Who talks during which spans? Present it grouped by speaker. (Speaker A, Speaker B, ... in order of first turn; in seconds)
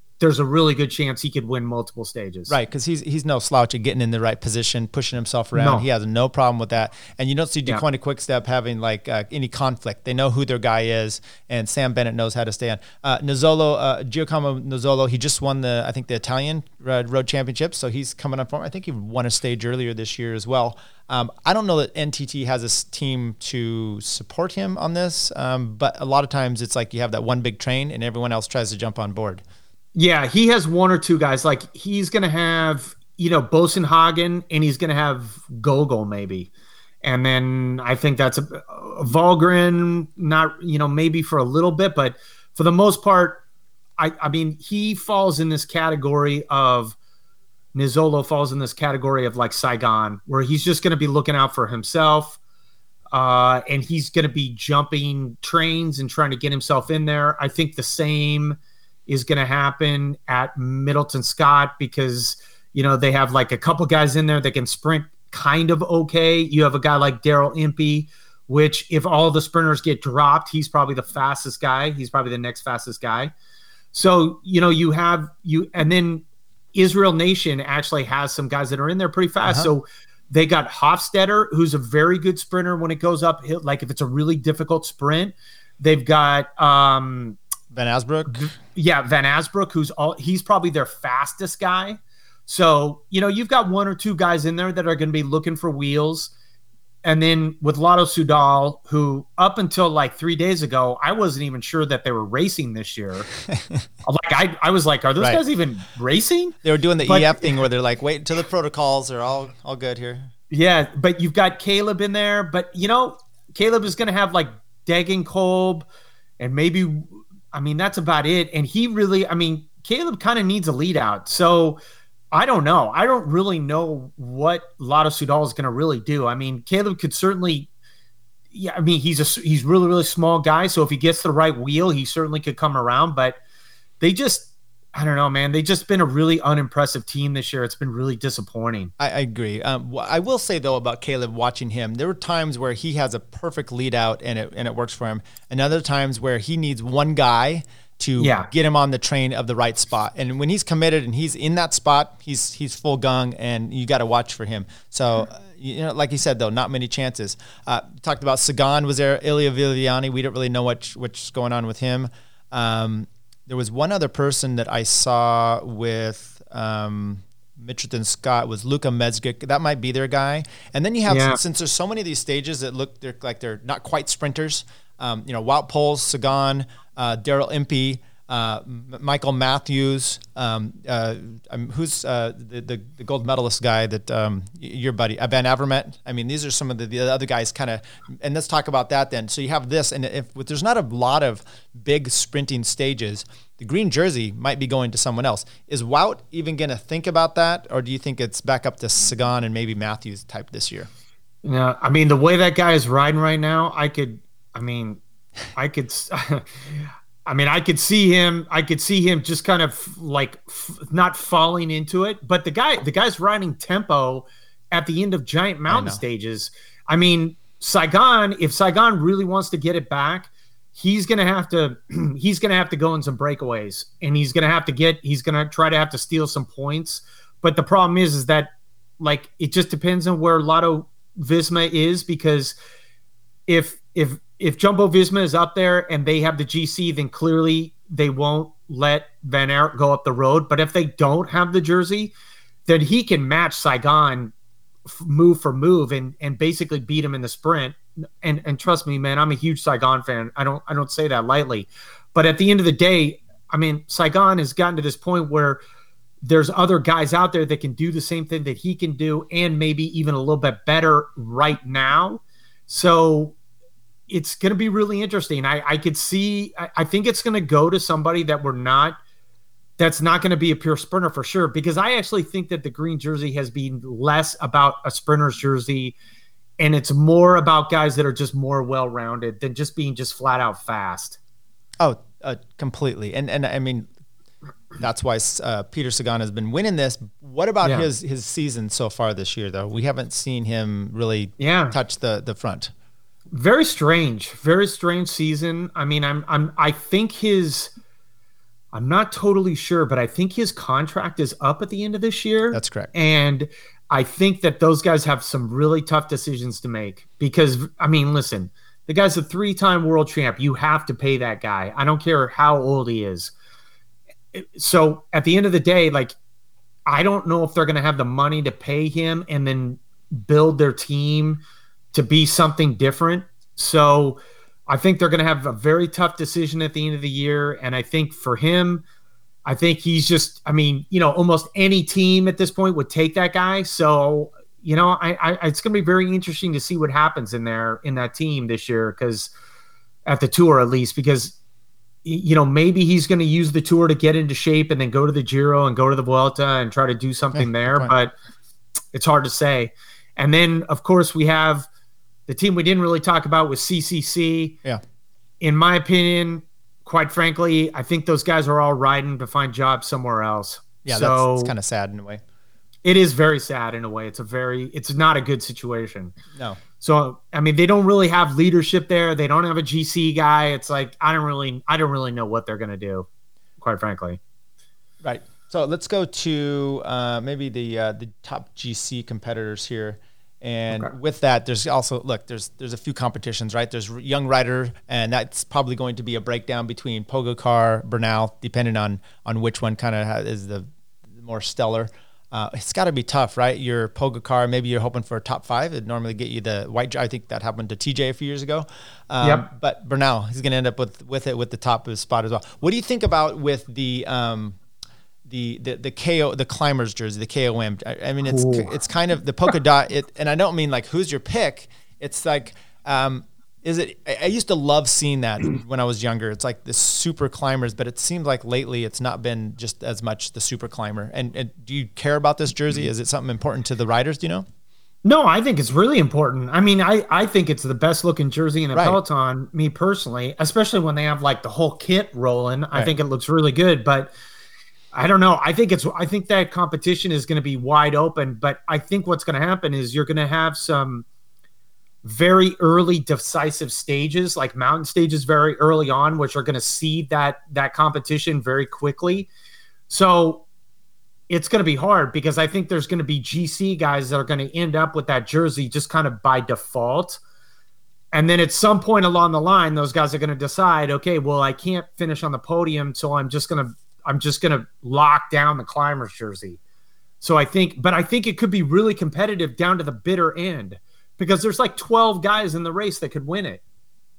Speaker A: 0.2-2.5, 5.5-5.8, 29.9-36.5, 37.0-43.4, 44.0-47.0, 47.7-52.4, 53.1-73.3, 73.9-87.4, 88.3-96.3, 97.0-103.3, 104.0-107.6, 110.5-115.9, 116.4-121.8, 122.3-127.7, 128.5-133.4, 134.0-138.9, 148.2-148.5, 171.1-171.4, 201.4-205.0, 205.6-232.6, 233.5-242.1, 242.7-244.3, 244.9-255.6, 256.2-263.4, 264.1-269.0, 269.8-275.9, 276.6-281.2, 287.6-287.9, 291.4-291.8, 293.3-297.7, 298.7-313.3, 314.3-316.2, 316.9-321.4, 321.9-328.8, 329.4-339.3, 340.1-341.4, 342.1-348.1, 348.9-351.7, 352.3-354.6, 355.4-361.5, 362.8-366.2, 366.8-373.1, 373.6-374.2, 408.3-408.7, 425.0-434.1, 434.9-441.1, 442.0-449.3, 449.9-450.4, 451.3-457.2, 458.1-466.6, 467.2-473.6
Speaker B: 2.5-29.4, 87.7-88.5, 103.5-103.8, 106.6-110.3, 139.0-200.9, 215.7-216.0, 281.8-283.9, 284.8-292.7, 302.5-302.9, 347.4-347.9, 360.9-362.2, 375.0-404.6, 405.3-424.4